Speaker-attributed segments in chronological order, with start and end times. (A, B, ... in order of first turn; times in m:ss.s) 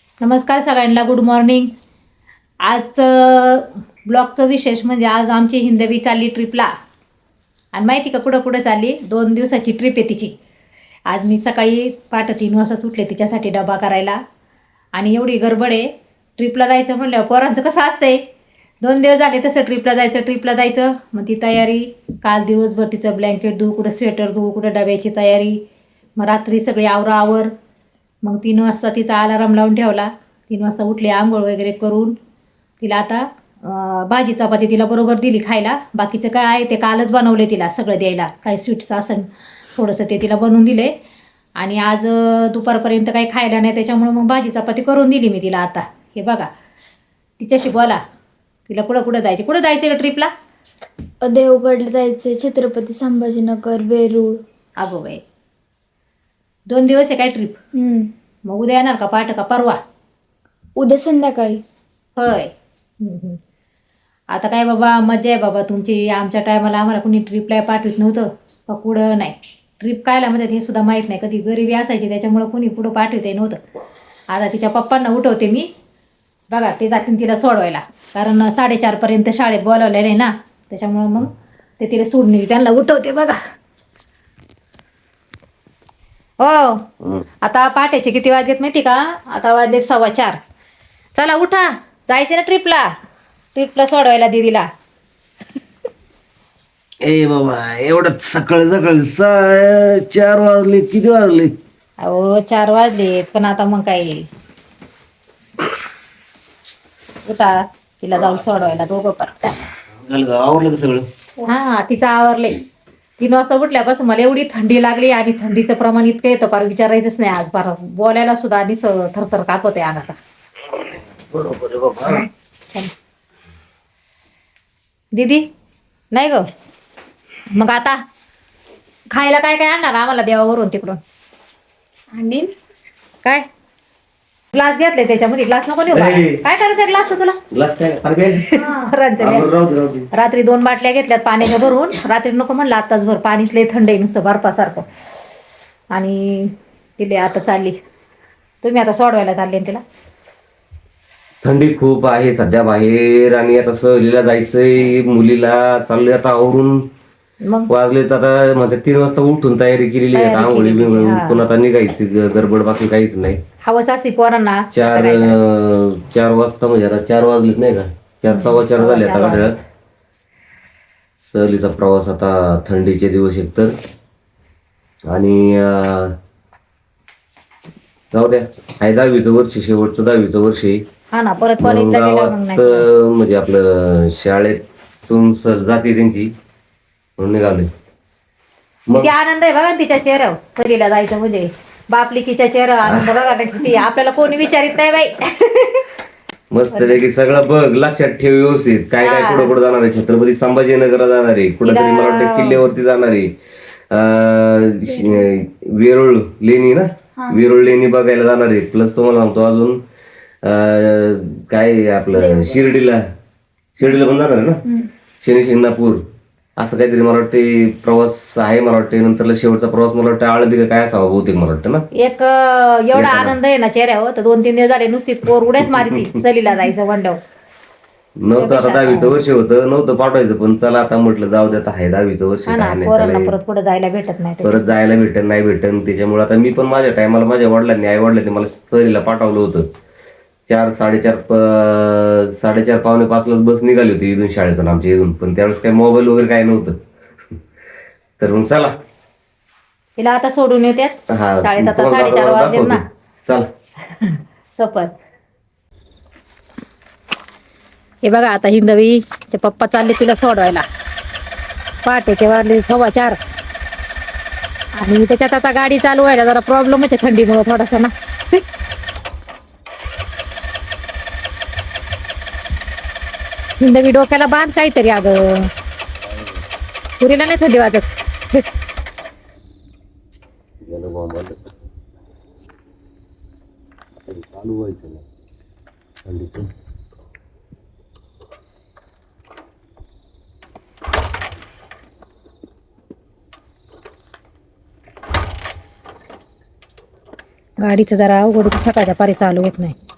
0:00.2-0:01.7 A
0:02.6-0:06.7 A
0:07.7-0:10.3 A
0:11.1-0:14.2 A
0:15.0-0:18.2 A
0:18.8-0:25.6 A
0:26.2-0:27.5 A
0:28.2-0:32.1 A
0:32.8-0:40.9 A
0:41.6-0:46.5 A
0:47.4-0:48.0 A
0:48.7-0:50.3 A
0:51.2-0:54.4 B
0:54.8-0:55.2 A
0:56.7-0:57.6 A
0:57.8-0:58.1 B
0:58.5-0:59.8 A
1:00.8-1:01.6 B
1:02.2-1:03.4 A
1:04.3-1:13.6 A
1:14.3-1:15.7 A
1:16.5-1:23.4 A
1:26.4-1:30.4 A
1:31.1-1:32.8 A
1:33.5-1:34.7 A
1:37.0-1:41.5 C
1:42.0-1:44.2 A
1:47.2-1:49.6 A
1:49.9-1:51.1 C
1:51.4-1:52.6 A
1:53.2-2:00.2 A
2:01.3-2:02.2 C
2:05.1-2:05.4 A
2:06.1-2:06.5 A
2:07.5-2:08.0 A
2:09.1-2:11.0 A
2:12.1-2:12.5 B
2:14.5-2:17.4 A
2:15.9-2:16.4 C
2:17.5-2:18.6 C
2:18.5-2:19.5 A
2:19.2-2:20.1 C
2:20.1-2:24.8 A
2:25.9-2:27.8 A
2:28.6-2:29.8 A
2:31.4-2:36.8 C
2:37.7-2:43.4 C
2:40.1-2:41.5 A
2:43.6-2:45.4 A
2:44.7-2:49.6 C
2:48.3-2:49.5 A
2:51.2-2:53.7 C
2:55.1-2:56.2 C
2:58.1-3:00.8 C
3:01.1-3:02.9 A
3:01.6-3:06.3 C
3:07.2-3:07.7 C
3:08.9-3:15.9 A
3:12.8-3:13.2 C
3:16.5-3:23.3 C
3:16.7-3:17.0 A
3:19.0-3:19.5 A
3:21.6-3:22.6 A
3:23.9-3:29.8 C
3:30.4-3:33.0 C
3:32.1-3:32.6 B
3:33.8-3:34.6 C
3:35.2-3:36.0 C
3:36.6-3:41.8 C
3:42.0-3:47.2 A
3:42.9-3:43.4 C
3:45.6-3:46.2 C
3:48.2-3:53.4 C
3:48.4-3:49.2 A
3:52.5-3:54.6 A
3:54.4-3:59.7 C
4:00.5-4:06.8 C
4:08.2-4:08.7 C
4:10.0-4:12.8 A
4:11.1-4:13.5 C
4:13.9-4:14.9 A
4:18.0-4:20.6 A
4:21.8-4:23.2 A
4:24.8-4:28.4 A
4:33.6-4:35.5 A
4:36.0-4:36.4 C
4:37.0-4:38.4 A
4:40.6-4:41.4 C
4:44.0-4:45.0 C
4:46.0-4:46.5 C
4:57.6-4:59.8 A